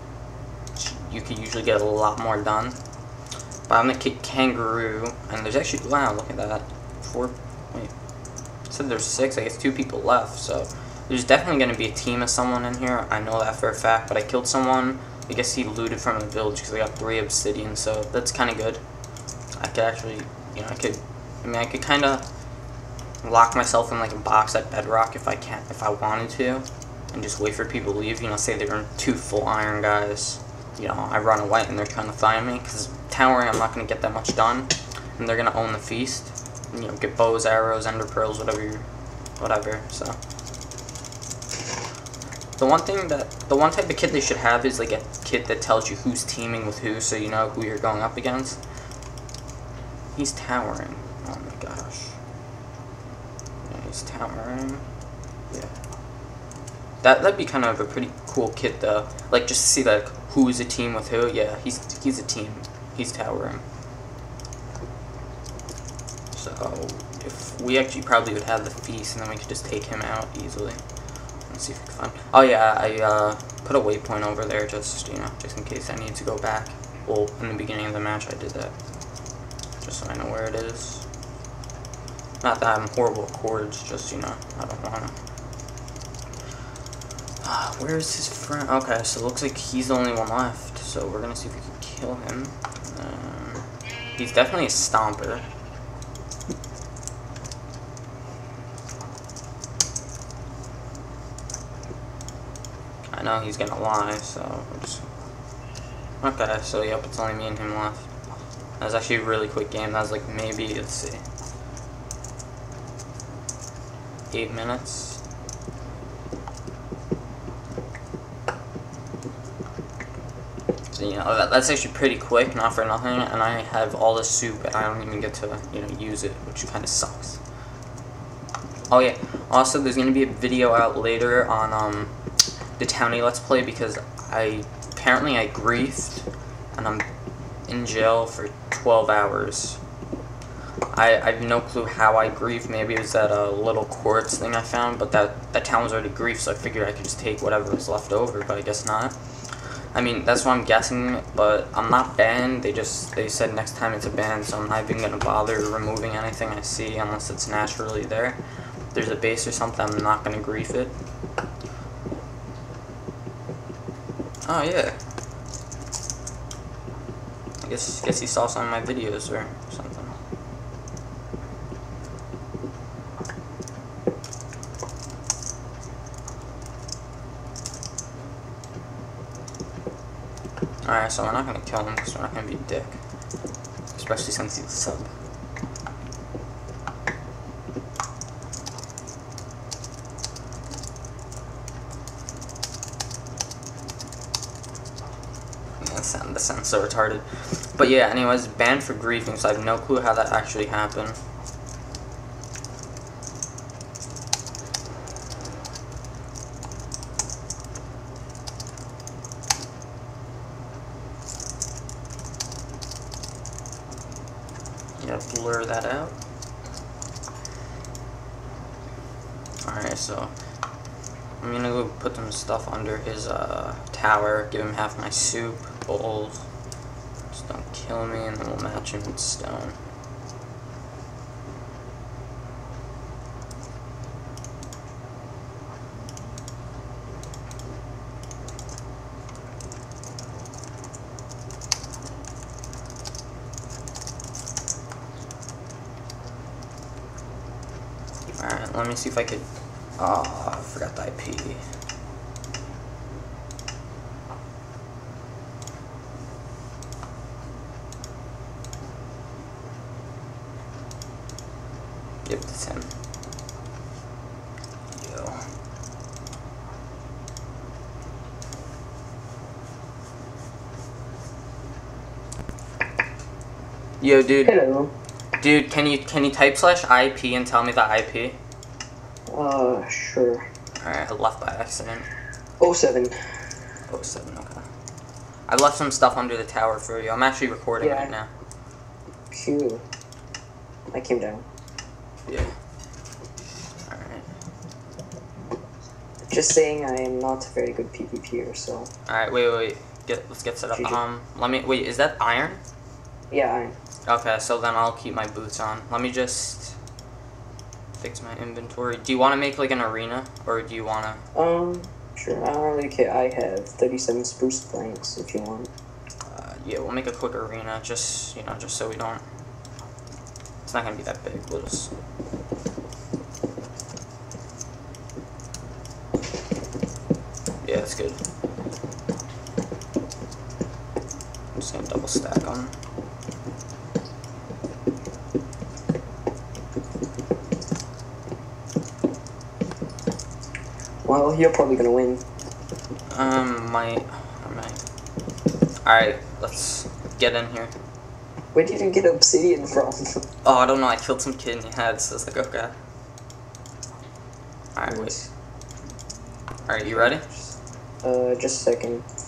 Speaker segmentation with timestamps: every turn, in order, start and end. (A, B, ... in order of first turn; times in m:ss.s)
0:00.7-0:02.8 A
0:03.7-0:07.9 A
0:08.7-0:18.8 A
0:19.6-0:22.2 A
0:23.2-0:38.8 A
0:39.4-0:40.2 A
0:42.6-0:48.6 A
0:50.1-0:52.2 A
0:53.6-0:54.8 A
0:57.0-1:03.6 A
1:06.3-1:10.8 A
1:11.5-1:18.7 A
1:19.8-1:21.0 A
1:22.4-1:25.2 A
1:27.4-1:33.6 A
1:34.2-1:35.4 A
1:43.1-1:45.0 A
1:46.2-1:48.1 A
1:48.8-1:51.2 A
1:54.3-1:55.2 A
2:00.9-2:07.4 A
2:08.9-2:12.1 A
2:12.8-2:17.0 A
2:17.7-2:19.8 A
2:20.9-2:29.2 A
2:29.9-2:38.4 A
2:38.9-2:40.9 A
2:44.4-2:45.0 A
2:47.6-2:50.2 A
3:00.8-3:03.0 A
3:03.9-3:05.1 A
3:15.8-3:21.2 A
3:35.0-3:36.2 A
3:39.6-3:40.3 A
3:41.4-3:46.5 A
3:47.3-3:49.8 A
4:08.4-4:09.5 A
4:10.0-4:11.6 A
4:22.2-4:22.9 A
4:24.9-4:25.4 A
4:34.0-4:34.5 A
4:34.4-4:34.9 B
4:35.4-4:38.4 A
4:39.3-4:40.5 B
4:40.8-4:42.0 A
4:42.6-4:43.1 B
4:43.9-4:44.6 A
4:45.5-4:48.3 A
4:47.8-4:48.1 B
4:49.3-4:49.8 B
4:50.9-4:51.4 B
4:52.3-4:52.5 A
4:53.8-4:54.3 A
4:56.3-4:58.9 B
4:59.1-5:02.6 A
5:00.7-5:01.0 B
5:03.3-5:03.8 B
5:04.1-5:06.8 A
5:08.0-5:11.2 A
5:11.3-5:15.7 B
5:16.3-5:19.2 A
5:20.6-5:21.9 A
5:27.6-5:28.2 A
5:31.5-5:32.7 A
5:41.0-5:42.2 B
5:43.1-5:44.8 A
5:45.8-5:47.7 A
5:48.5-5:50.2 B
5:50.4-5:52.7 A
5:54.7-5:55.1 A
5:54.9-5:55.3 B
5:56.7-5:57.2 A
5:56.8-5:59.1 B